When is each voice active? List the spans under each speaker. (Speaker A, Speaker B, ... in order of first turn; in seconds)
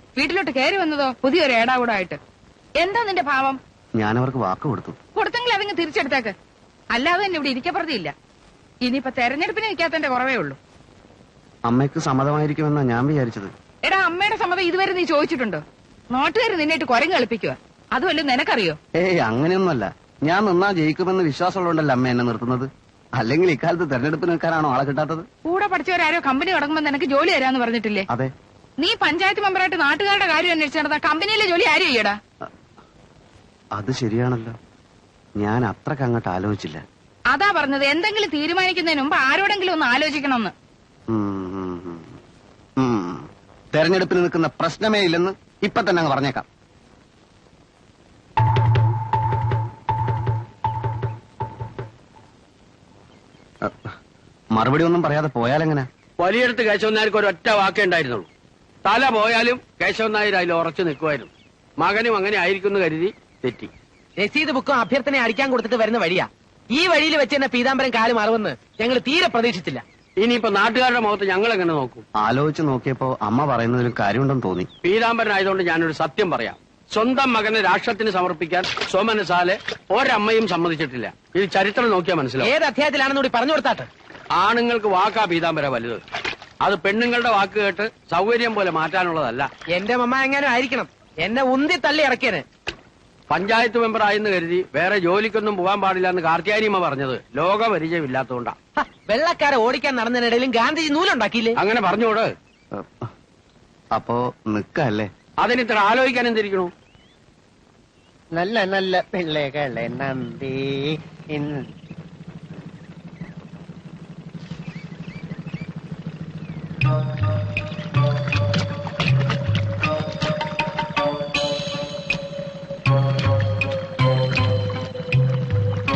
Speaker A: 0.2-2.2, 2.8-3.6, 5.2-6.3, 6.9-8.1, 8.8-10.6, 13.8-18.8, 25.4-28.0, 28.8-32.2, 37.3-40.5
Speaker B: 4.0-5.0, 11.7-13.5, 19.0-25.3, 33.8-34.5, 35.4-36.8, 41.1-42.0, 42.8-46.5, 54.5-55.9, 72.2-74.7, 102.8-103.1, 103.9-105.1
Speaker C: 56.2-58.3, 58.8-61.3, 61.8-63.7, 70.2-72.0, 74.8-82.5, 84.4-86.0, 86.6-89.5, 93.3-98.5, 101.6-102.3, 105.4-106.7
Speaker D: 64.5-66.2, 66.8-69.7, 82.8-83.7, 89.8-90.8, 91.3-92.3, 99.2-101.1
Speaker E: 108.3-110.6, 111.3-111.6